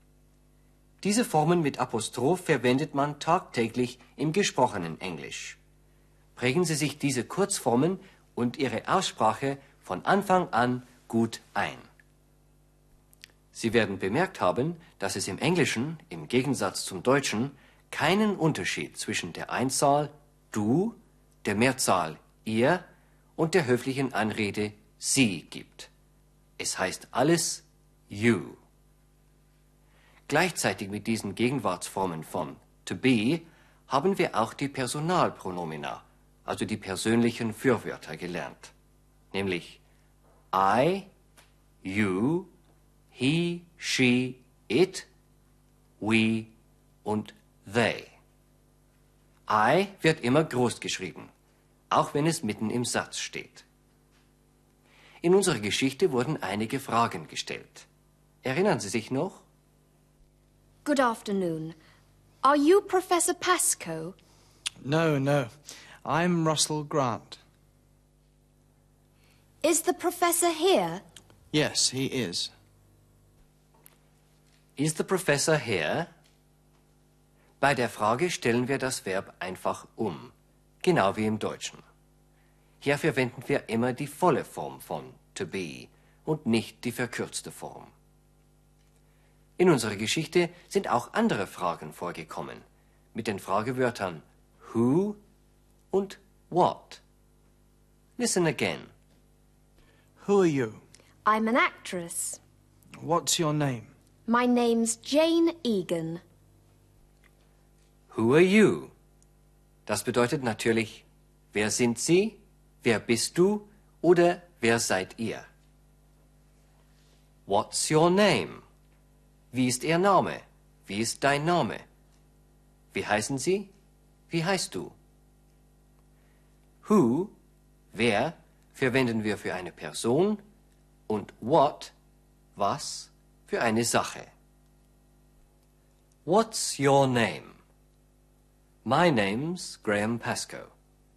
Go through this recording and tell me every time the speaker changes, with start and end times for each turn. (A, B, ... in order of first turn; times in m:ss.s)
0:01.0-0:05.6 A
0:06.4-0:11.9 A
0:13.5-0:22.8 A
0:23.4-0:25.9 A
0:26.6-0:28.6 A
0:30.3-0:38.7 A
0:39.3-0:39.8 A
0:40.5-0:41.1 A
0:41.8-0:42.5 A
0:43.1-0:45.1 A
0:46.0-0:46.5 A
0:47.0-0:48.1 A
0:49.5-0:51.3 A
0:51.9-0:53.6 A
0:55.2-0:57.8 A
0:58.4-0:59.4 A
1:00.8-1:01.8 B
1:02.4-1:04.2 B
1:04.8-1:07.4 C
1:09.6-1:11.0 B
1:11.5-1:12.5 C
1:14.8-1:16.1 A
1:17.6-1:21.8 A
1:22.8-1:27.9 A
1:29.6-1:35.2 A
1:35.9-1:37.0 A
1:38.2-1:38.9 A
1:40.2-1:40.8 C
1:41.2-1:42.4 B
1:43.0-1:43.9 C
1:44.3-1:46.2 B
1:48.1-1:48.9 A
1:49.8-1:55.5 A
1:57.5-1:58.6 A
1:59.5-2:01.8 A
2:02.9-2:03.7 A
2:04.3-2:04.9 A
2:06.8-2:07.3 A
2:07.9-2:10.4 A
2:11.1-2:11.9 A
2:12.6-2:14.3 A
2:16.2-2:17.6 A
2:18.8-2:20.7 A